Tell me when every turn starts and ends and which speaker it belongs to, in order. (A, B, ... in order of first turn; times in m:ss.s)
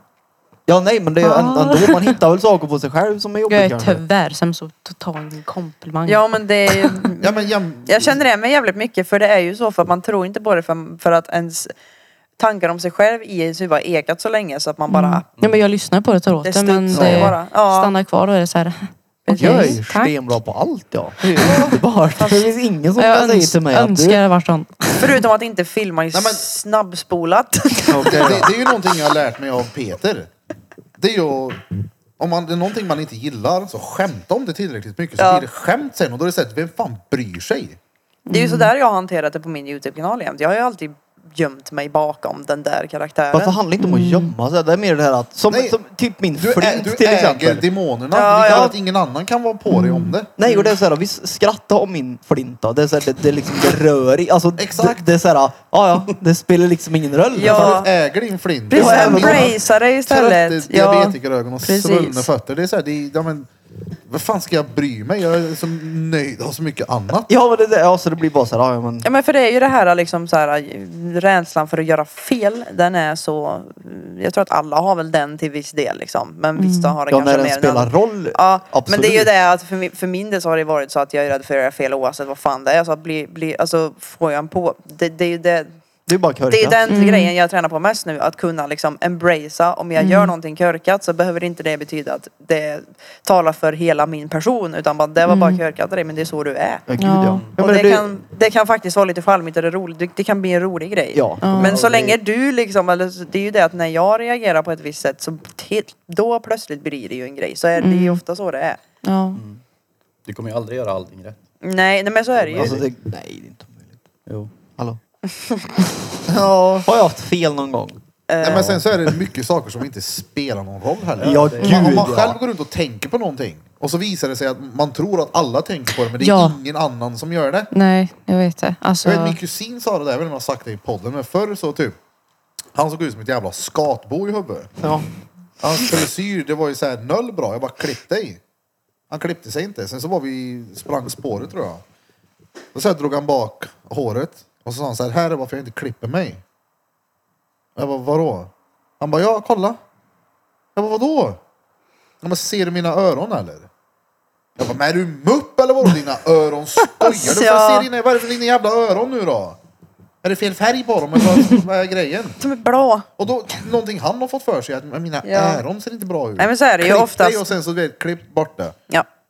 0:00.7-0:04.0 A
0:01.2-0:02.2 B
0:03.5-0:07.0 B
0:06.1-0:11.7 C
0:07.2-0:08.2 D
0:12.4-0:15.3 C
0:14.9-0:20.1 B
0:16.4-0:17.9 C
0:16.9-0:17.4 A
0:19.3-0:19.8 C
0:19.4-0:24.2 A
0:22.2-0:22.5 C
0:23.0-0:25.2 B
0:25.0-0:28.5 C
0:26.1-0:26.5 D
0:27.9-0:28.5 A
0:28.0-0:30.3 D
0:31.0-0:31.6 D
0:32.2-0:37.8 D
0:35.2-0:35.5 C
0:38.3-0:38.7 B
0:38.3-0:43.6 C
0:43.3-0:47.7 A
0:43.8-0:44.3 B
0:45.5-0:45.8 D
0:46.4-0:50.3 D
0:48.1-0:48.8 C
0:49.7-0:50.2 B
0:50.4-0:57.8 A
0:50.4-0:50.7 C
0:54.6-0:55.0 D
0:57.3-0:57.9 C
0:57.4-1:03.5 D
0:58.7-1:02.3 C
0:58.7-0:59.6 A
1:04.1-1:07.3 D
1:07.3-1:09.1 A
1:09.0-1:25.8 C
1:16.6-1:17.0 B
1:17.1-1:19.3 A
1:26.1-1:26.8 A
1:26.5-1:36.8 C
1:26.9-1:27.3 B
1:30.0-1:30.3 B
1:35.3-1:35.6 B
1:36.9-1:38.1 A
1:37.0-1:37.5 B
1:37.3-1:37.6 E
1:37.6-1:48.8 C
1:41.1-1:41.8 A
1:41.4-1:41.8 B
1:41.6-1:42.2 E
1:47.8-1:48.2 B
1:49.0-1:49.4 B
1:49.3-1:49.6 E
1:50.3-1:51.4 E
1:51.6-1:52.8 C
1:52.4-1:52.8 E
1:52.6-1:54.0 A
1:55.3-1:55.7 C
1:56.3-1:59.1 A
1:56.3-1:56.8 D
1:58.3-1:58.7 C
1:58.4-2:07.7 D
2:01.2-2:01.9 E
2:01.2-2:02.4 A
2:01.6-2:02.0 B
2:06.2-2:06.6 B
2:07.7-2:09.4 B
2:09.0-2:12.0 D
2:12.8-2:14.7 D
2:14.8-2:15.1 A
2:15.6-2:18.4 D
2:19.1-2:21.8 D
2:22.7-2:26.4 D
2:27.8-2:29.8 D
2:30.8-2:31.4 D
2:32.2-2:33.7 D
2:34.6-2:39.6 D
2:37.0-2:37.9 C
2:40.2-2:42.4 D
2:42.4-2:43.1 C
2:43.2-2:48.8 D
2:45.2-2:45.6 C
2:46.4-2:47.4 C